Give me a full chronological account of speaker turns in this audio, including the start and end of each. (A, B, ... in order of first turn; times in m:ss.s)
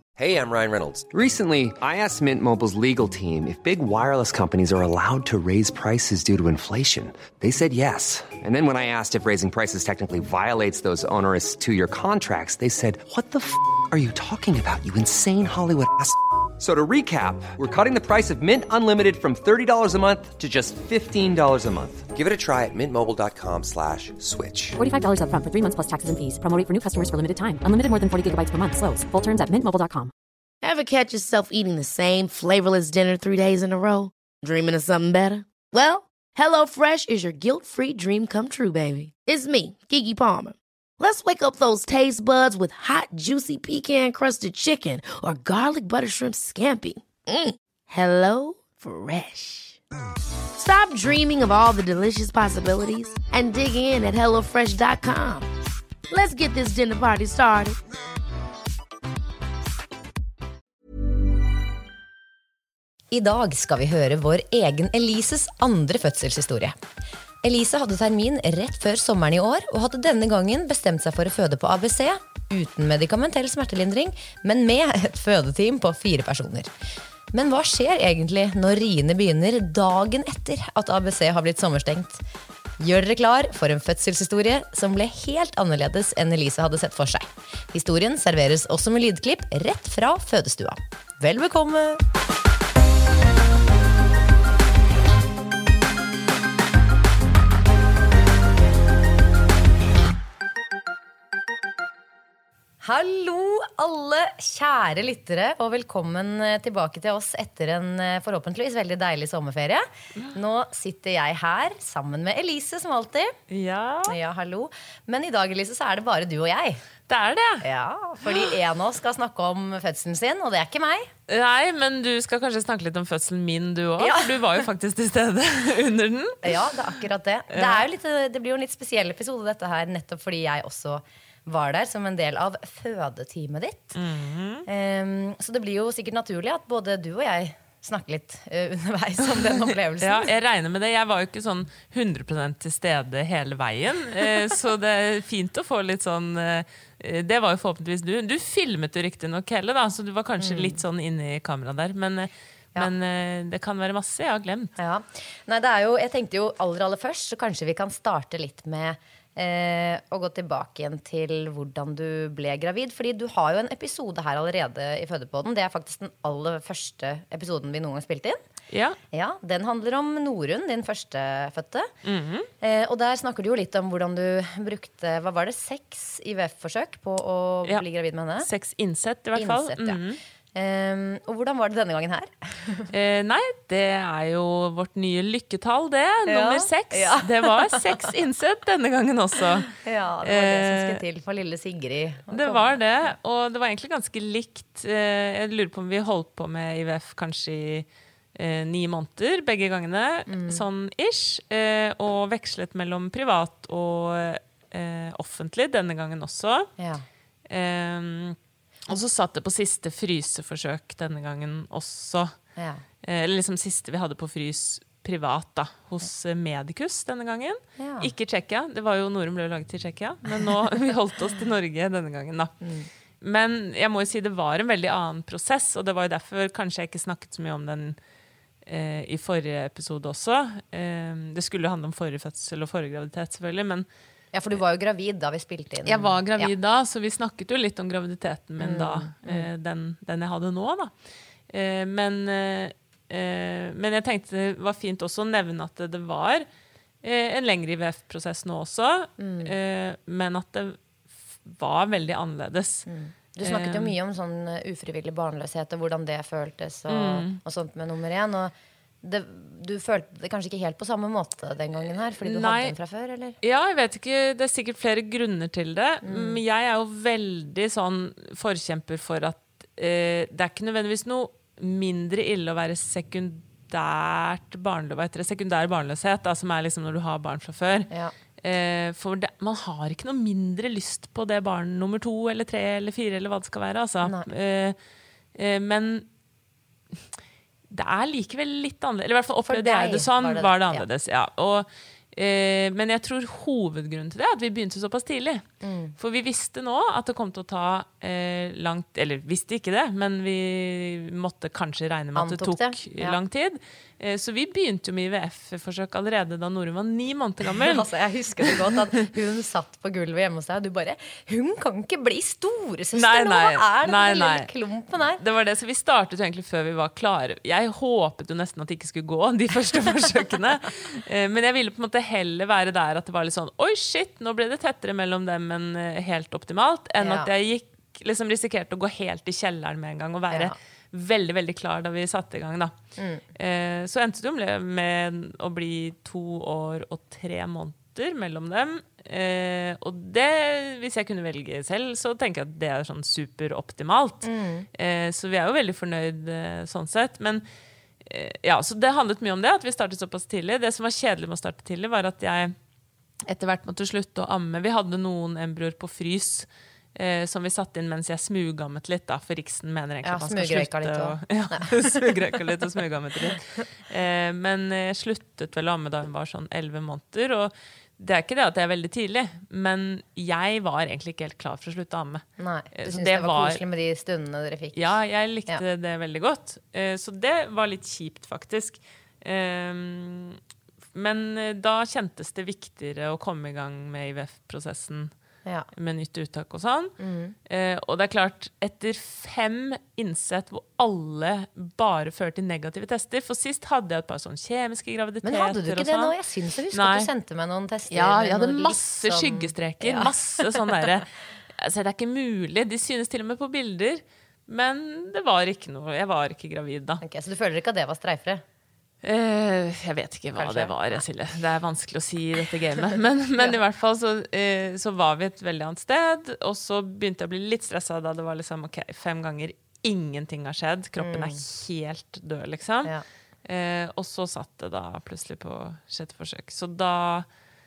0:00.2-0:24.8 A
0:24.8-0:30.1 B
0:30.6-0:49.8 C
0:50.6-0:55.5 C
0:56.1-0:57.8 C
1:03.1-1:06.8 D
1:07.4-1:16.7 D
1:17.3-1:22.2 D
1:22.8-1:32.0 D
1:42.8-1:53.3 D
1:53.5-1:54.2 E
1:54.1-1:56.8 D
1:57.1-1:57.6 E
1:57.6-2:01.1 D
2:01.3-2:06.6 E
2:04.0-2:04.4 D
2:06.4-2:14.0 D
2:07.5-2:07.8 E
2:14.0-2:14.6 E
2:14.7-2:20.3 D
2:20.0-2:34.7 E
2:30.4-2:30.8 D
2:34.8-2:48.4 D
2:48.7-2:49.0 E
2:49.1-2:51.9 D
2:52.0-2:52.5 E
2:52.6-2:58.5 D
2:58.4-3:00.2 E
2:59.4-3:00.0 D
3:00.5-3:02.9 D
3:02.9-3:09.7 E
3:06.2-3:08.0 D
3:09.7-3:13.1 D
3:10.2-3:11.0 E
3:12.3-3:26.7 E
3:20.3-3:20.6 D
3:26.8-3:27.0 D
3:27.5-3:28.4 E
3:28.9-3:32.3 E
3:32.6-3:32.8 D
3:33.0-3:42.5 E
3:37.8-3:38.1 D
3:42.6-3:42.9 D
3:43.2-3:48.0 E
3:48.6-3:53.9 E
3:54.3-3:56.5 D
3:55.8-4:00.9 E
3:58.6-3:59.5 D
4:01.5-4:06.5 E
4:07.0-4:10.8 E
4:09.2-4:09.5 D
4:11.4-4:12.8 E
4:12.9-4:23.4 D
4:13.4-4:13.9 E
4:16.9-4:17.4 E
4:22.2-4:22.7 E
4:23.4-4:37.9 E
4:26.0-4:26.4 D
4:38.4-4:44.8 E
4:45.3-4:46.1 E
4:47.7-4:55.4 E
4:49.4-4:50.8 D
4:55.6-4:56.0 D
4:56.0-5:07.9 E
5:02.1-5:03.2 D
5:07.5-5:15.2 D
5:12.9-5:14.5 E
5:15.2-5:32.7 E
5:27.0-5:27.3 D
5:30.3-5:30.5 D
5:33.0-5:33.2 D
5:33.4-5:47.4 E
5:44.2-5:44.7 D
5:48.0-5:52.5 E
5:53.2-6:13.6 E
6:00.0-6:02.0 D
6:12.4-6:14.9 D
6:14.7-6:20.4 E
6:20.9-6:25.1 E
6:25.8-6:26.9 E
6:27.0-6:27.3 D
6:27.5-6:36.1 E
6:35.2-6:40.6 D
6:36.7-6:37.1 E
6:37.9-6:47.0 E
6:47.0-6:48.4 D
6:49.0-7:02.9 E
6:50.4-6:51.0 D
7:01.0-7:01.4 D
7:03.4-7:07.2 E